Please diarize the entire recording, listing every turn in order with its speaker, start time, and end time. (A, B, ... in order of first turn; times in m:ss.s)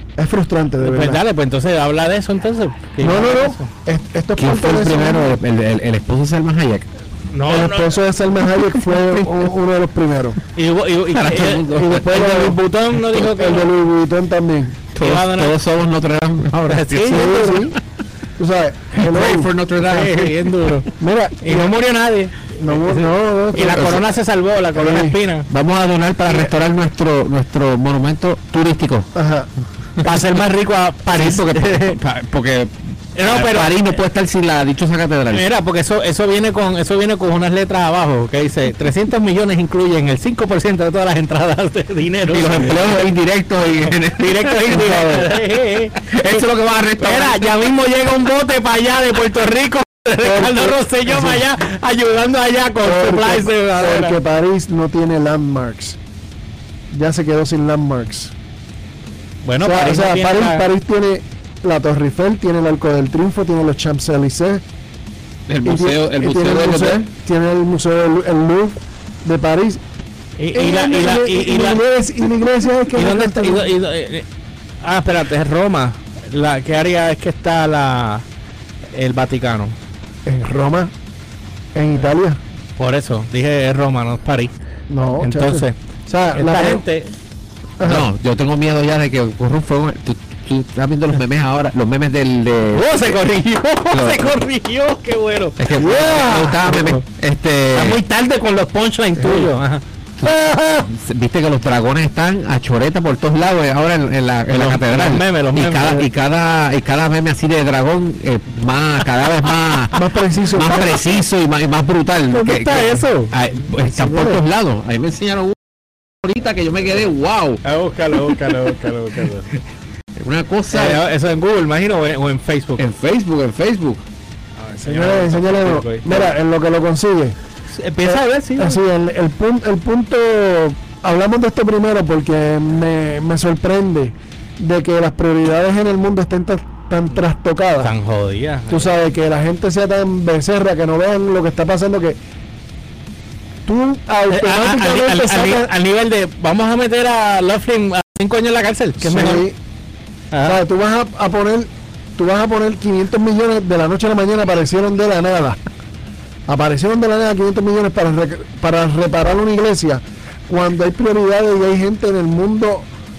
0:00.2-0:01.2 A
0:00.8-0:03.7 B
0:03.0-0:05.4 A
0:04.4-0:06.9 C
0:07.3-0:07.9 B
0:07.5-0:10.4 A
0:10.5-0:13.7 B
0:11.1-0:12.3 C
0:11.7-0:14.8 A
0:14.9-0:17.8 C
0:15.0-0:15.6 B
0:16.5-0:17.5 B
0:17.1-0:17.8 A
0:18.4-0:19.5 A
0:19.0-0:20.7 C
0:19.8-0:25.5 B
0:21.0-0:21.8 A
0:22.6-0:24.0 A
0:23.6-0:24.0 C
0:24.7-0:25.2 A
0:25.5-0:29.1 C
0:26.2-0:26.5 A
0:29.1-0:29.5 A
0:30.0-0:32.0 B
0:31.1-0:35.5 C
0:33.1-0:34.0 B
0:35.3-0:43.1 B
0:42.3-0:45.2 C
0:43.9-0:46.4 B
0:44.7-0:45.3 A
0:46.0-0:47.7 C
0:47.0-0:54.2 B
0:50.2-0:51.4 A
0:52.8-0:56.0 A
0:56.9-0:58.3 A
0:59.4-1:00.6 B
0:59.6-1:04.6 A
1:05.5-1:07.0 C
1:05.6-1:09.8 A
1:10.4-1:11.8 B
1:10.5-1:13.7 A
1:12.9-1:14.2 B
1:14.8-1:18.2 B
1:18.9-1:19.8 B
1:20.2-1:20.9 A
1:21.7-1:22.4 A
1:22.8-1:24.5 B
1:24.9-1:26.8 A
1:25.2-1:25.8 B
1:26.3-1:27.1 B
1:27.8-1:28.1 A
1:27.8-1:33.2 C
1:32.7-1:35.9 B
1:33.9-1:34.3 C
1:35.6-1:38.0 C
1:35.7-1:36.6 A
1:36.6-1:37.0 B
1:37.7-1:39.8 B
1:39.2-1:39.5 A
1:40.2-1:50.0 C
1:44.5-1:46.0 B
1:49.9-1:51.1 A
1:50.5-1:55.6 C
1:52.3-1:53.3 B
1:53.8-1:54.4 A
1:56.2-1:57.6 C
1:57.6-1:59.6 B
2:00.2-2:01.0 C
2:00.7-2:02.8 B
2:02.8-2:04.0 C
2:04.6-2:06.3 B
2:04.8-2:07.4 A
2:07.7-2:08.8 B
2:08.0-2:17.9 A
2:17.8-2:19.0 B
2:18.7-2:22.2 A
2:23.6-2:25.7 A
2:24.3-2:29.4 B
2:29.0-2:29.6 A
2:30.3-2:30.6 B
2:30.4-2:35.6 A
2:36.5-2:42.9 A